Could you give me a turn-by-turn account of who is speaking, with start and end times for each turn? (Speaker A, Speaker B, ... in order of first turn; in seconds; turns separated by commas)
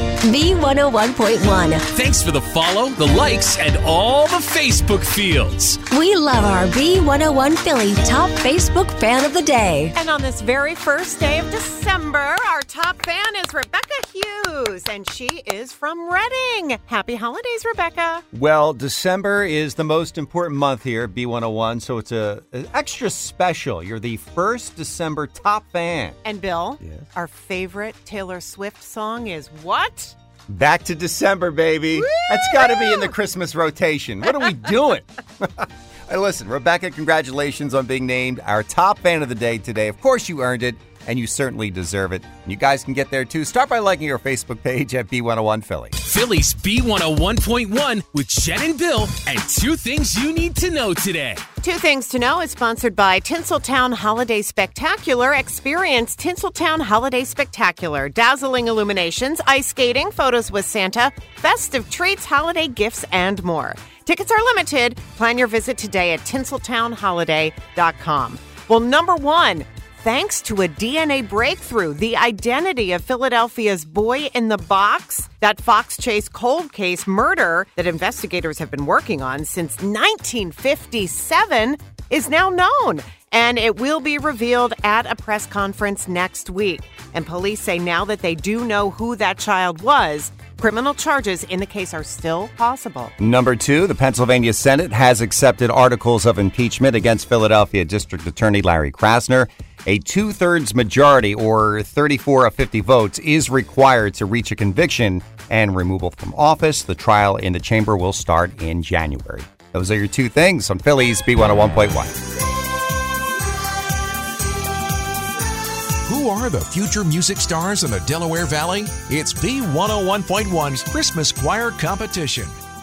Speaker A: 0.2-1.9, Speaker B: 1.9-5.8, Speaker A: 5.9-9.9, Speaker C: 9.9-18.2, Speaker D: 18.3-26.2, Speaker C: 26.2-30.1, Speaker D: 26.8-27.1, Speaker D: 30.5-46.0, Speaker C: 31.9-33.1, Speaker B: 46.0-51.4, Speaker C: 51.6-93.1, Speaker D: 93.2-112.2, Speaker E: 116.0-122.5